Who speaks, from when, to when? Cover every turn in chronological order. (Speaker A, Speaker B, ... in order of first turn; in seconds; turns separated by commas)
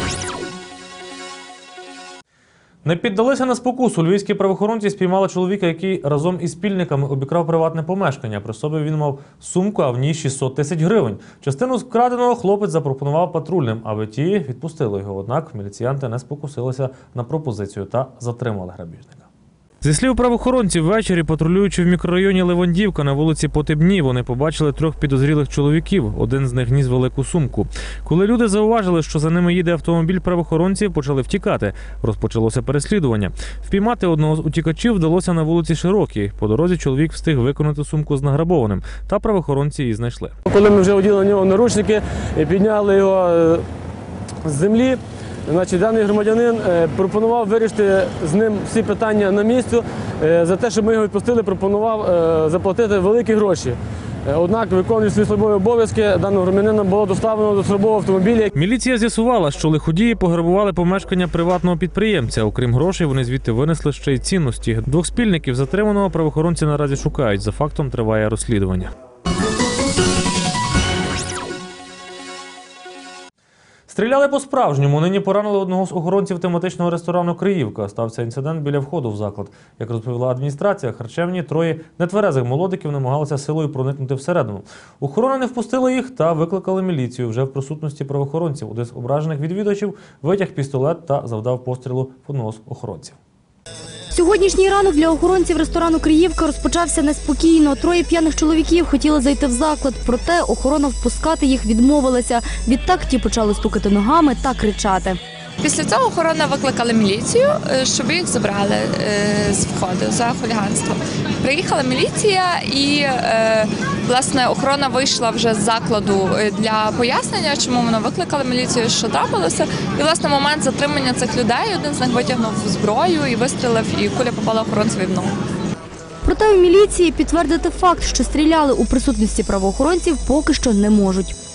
Speaker A: 2.9-19.3, Speaker A: 19.8-40.4, Speaker B: 40.5-43.7, Speaker B: 44.4-58.5, Speaker A: 58.5-68.9, Speaker A: 73.9-93.2, Speaker C: 94.1-105.2, Speaker D: 105.6-125.3, Speaker C: 126.2-131.3